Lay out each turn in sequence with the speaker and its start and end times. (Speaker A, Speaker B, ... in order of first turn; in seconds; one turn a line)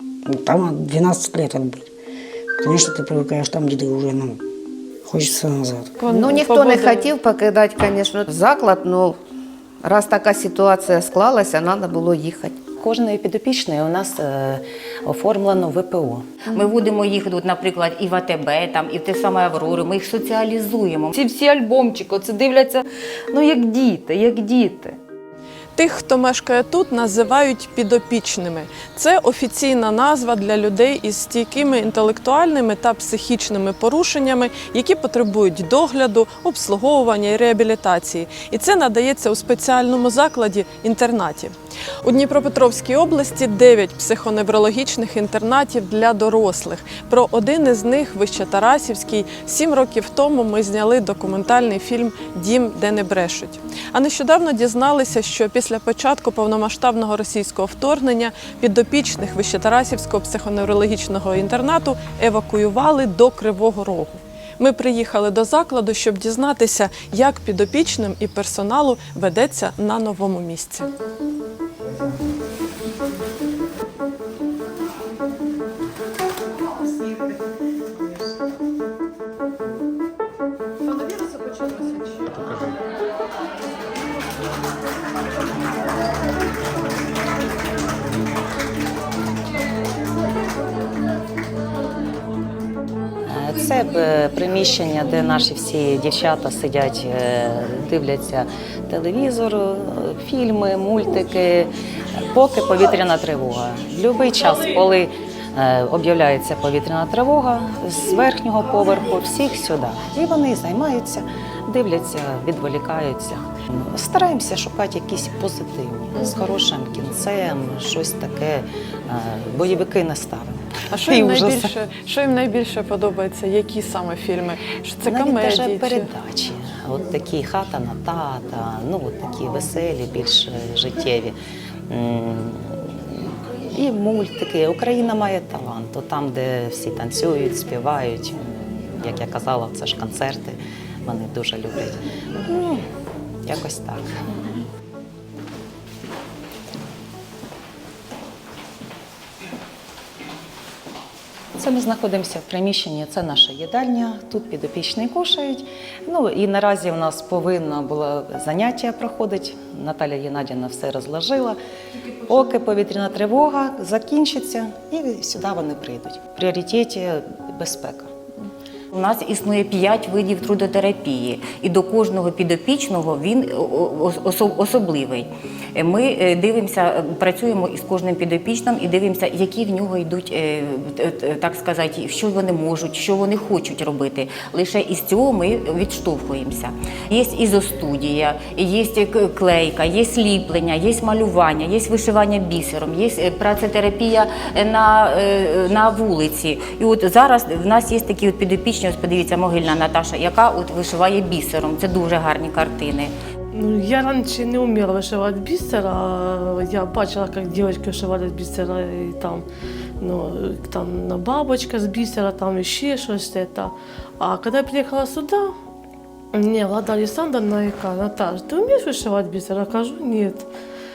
Speaker A: 0.3-1.9
Speaker A: 2.6-4.4
Speaker A: 5.0-5.9
Speaker B: 6.0-7.1
Speaker C: 6.1-9.2
Speaker C: 9.8-12.6
Speaker D: 12.8-16.4
Speaker B: 16.5-16.8
Speaker E: 16.5-21.1
Speaker F: 21.1-24.9
Speaker B: 25.8-70.9
Speaker D: 93.2-121.7
Speaker G: 104.3-104.8
Speaker B: 120.9-126.1
Speaker D: 125.0-131.4
Speaker D: 131.9-142.9
Speaker D: 143.4-144.1
Speaker D: 151.5-161.6
Speaker D: 162.3-168.1
Speaker E: 168.9-203.1
Speaker G: 203.5-209.4
Speaker G: 210.0-215.5
Speaker G: 216.3-220.5